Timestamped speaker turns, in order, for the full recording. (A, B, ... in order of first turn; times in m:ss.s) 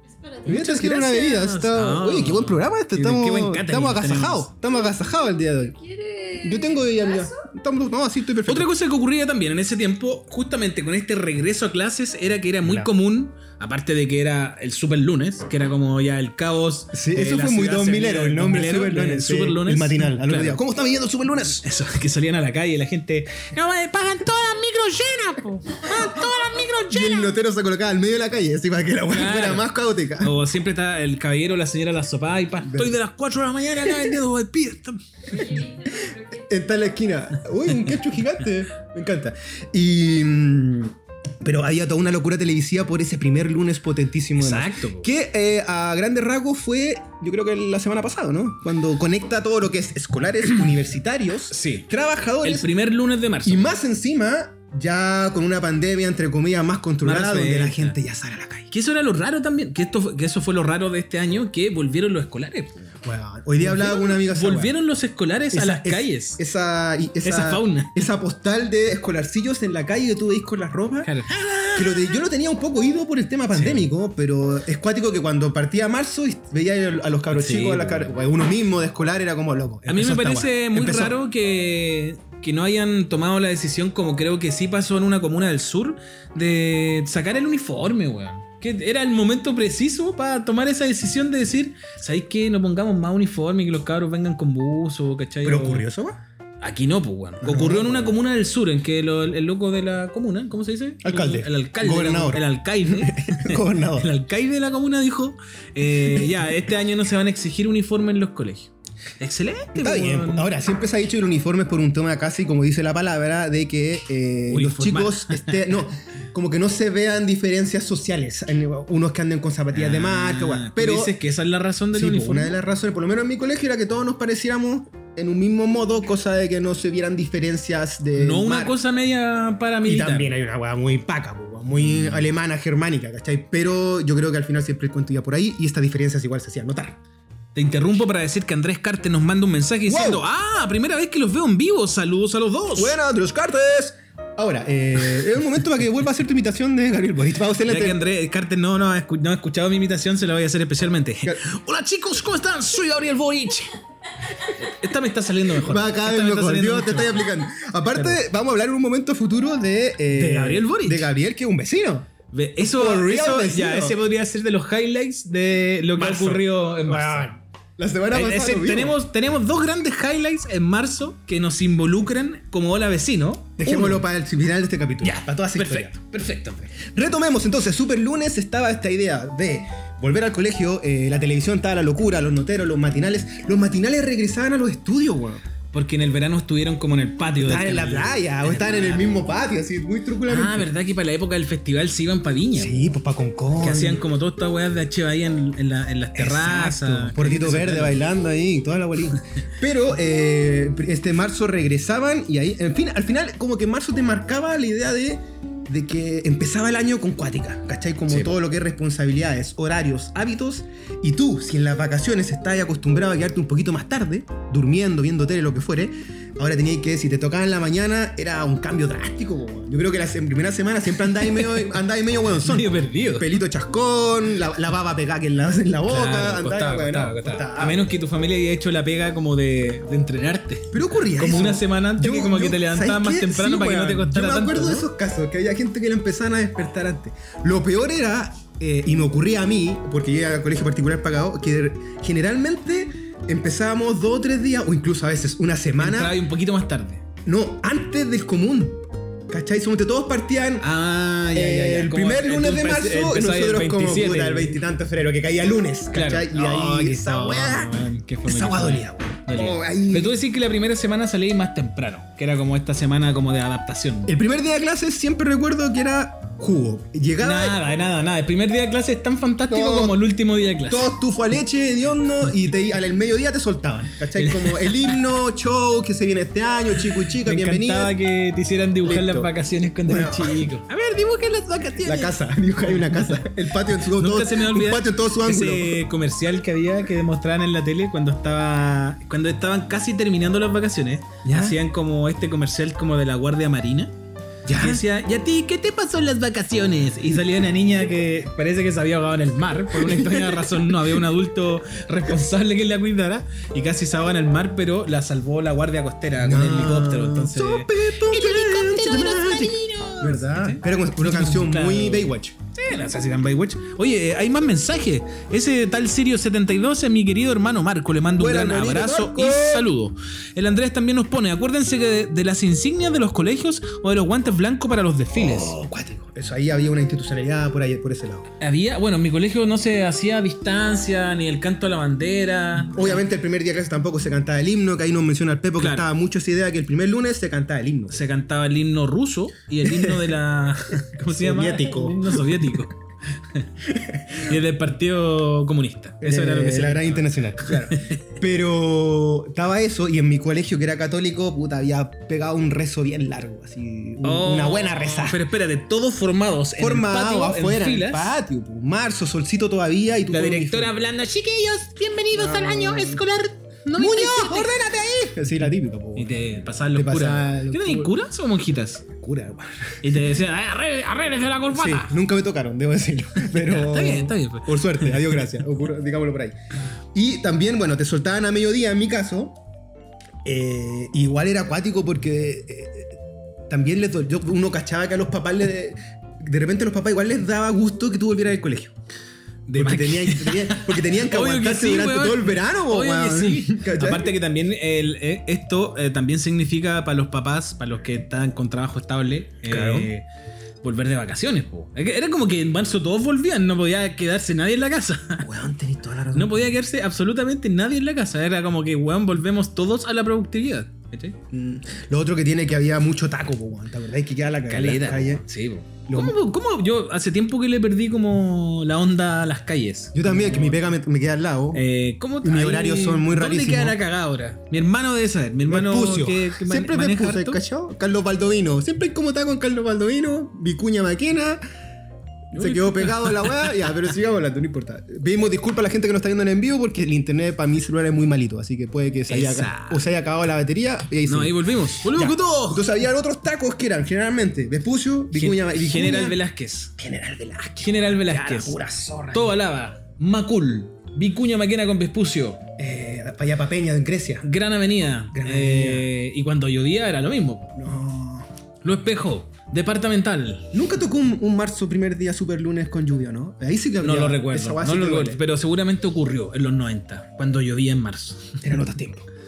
0:00.2-0:00.4 A
0:00.4-0:05.8 B
0:00.4-0:04.5 C
0:05.8-0:07.3 A
0:06.4-0:08.7 B
0:08.5-0:20.6 C
0:12.6-0:12.9 B
0:16.9-0:21.6 B
0:21.6-0:27.3 C
0:26.9-0:30.4 B
0:29.1-0:35.6 C
0:32.6-0:32.9 B
0:33.8-0:34.2 B
0:35.5-0:36.2 A
0:35.9-0:52.7 B
0:44.4-0:45.1 C
0:51.5-0:51.9 C
0:52.4-0:53.8 C
0:53.4-0:58.7 B
0:57.0-0:58.0 C
0:58.7-1:03.0 C
1:03.0-1:04.7 B
1:03.6-1:06.4 C
1:05.5-1:11.1 B
1:07.2-1:08.0 C
1:11.0-1:12.1 C
1:11.8-1:21.2 B
1:13.5-1:13.9 C
1:17.3-1:18.1 C
1:19.9-1:35.9 C
1:35.4-1:36.2 B
1:36.6-1:50.5 C
1:37.4-1:38.2 B
1:41.0-1:44.1 B
1:46.1-1:46.4 B
1:49.8-2:01.2 B
1:54.5-1:55.6 C
1:59.7-2:02.6 C
2:01.9-2:08.8 B
2:08.2-2:10.3 C
2:09.8-2:17.0 B
2:11.8-2:12.2 C
2:17.6-2:23.0 C
2:19.9-2:20.3 B
2:22.8-2:28.0 B
2:27.7-2:33.7 C
2:34.4-2:37.3 C
2:35.6-2:42.1 B
2:40.1-2:41.1 C
2:42.3-2:47.3 C
2:42.6-2:44.0 B
2:46.0-2:49.0 B
2:48.1-2:54.0 C
2:53.6-2:55.9 B
2:55.0-2:56.7 C
2:56.7-3:05.4 B
3:05.7-3:09.1 C
3:07.4-3:10.7 B
3:10.2-3:12.8 C
3:12.6-3:14.0 B
3:13.6-3:18.0 C
3:16.1-3:47.9 B
3:42.4-3:43.4 C
3:45.9-3:54.9 C
3:50.7-4:06.2 B
4:05.8-4:07.0 C
4:07.2-4:10.7 B
4:10.6-4:14.6 C
4:11.3-4:20.2 B
4:15.9-4:24.1 C
4:24.1-4:27.6 B
4:27.2-4:30.9 C
4:29.5-4:30.0 B
4:30.7-4:38.0 B
4:34.2-4:34.9 C
4:37.2-4:43.2 C
4:38.8-4:39.3 B
4:39.9-4:40.5 B
4:41.8-4:45.8 B
4:43.8-4:53.9 C
4:51.2-4:51.6 B
4:54.4-4:54.8 B
4:54.5-5:25.5 C
4:59.7-5:00.6 B
5:06.2-5:12.4 B
5:18.2-5:19.7 B
5:25.1-5:28.2 B
5:28.4-5:33.0 C
5:32.7-5:38.0 B
5:35.6-5:35.9 C
5:37.9-5:42.7 C
5:39.6-5:40.1 B
5:41.1-5:42.5 B
5:43.7-5:44.2 B
5:44.2-5:48.0 C
5:46.0-5:55.2 B
5:54.0-5:58.2 C
5:56.6-6:00.8 B
6:00.1-6:04.5 C
6:02.1-6:03.0 B
6:03.7-6:07.9 B
6:06.0-6:08.9 C
6:08.9-6:09.8 B
6:09.8-6:11.9 C
6:11.5-6:16.4 B
6:13.2-6:15.2 C
6:16.9-6:19.4 B
6:20.2-6:23.0 B
6:23.5-6:28.7 B
6:29.5-6:40.0 C
6:29.5-6:34.1 B
6:39.5-6:39.9 B
6:40.6-6:45.3 C
6:45.2-6:46.6 B
6:46.1-6:51.2 C
6:51.3-6:55.2 B
6:54.5-7:00.7 C
6:55.9-6:56.2 B
6:59.9-7:01.6 B
7:01.5-7:07.4 C
7:02.2-7:03.8 B
7:05.5-7:11.4 B
7:12.3-7:26.2 B
7:12.3-7:13.7 C
7:19.1-7:19.8 C
7:21.0-7:22.6 C
7:25.1-7:26.7 C
7:26.8-7:29.4 B
7:27.6-7:28.6 C
7:29.1-7:32.4 C
7:32.6-7:34.2 B
7:34.2-7:37.6 C
7:35.1-7:35.9 B
7:37.5-7:38.3 B
7:38.6-7:40.5 C
7:40.5-7:45.2 B
7:43.8-7:48.4 C
7:48.4-7:49.0 B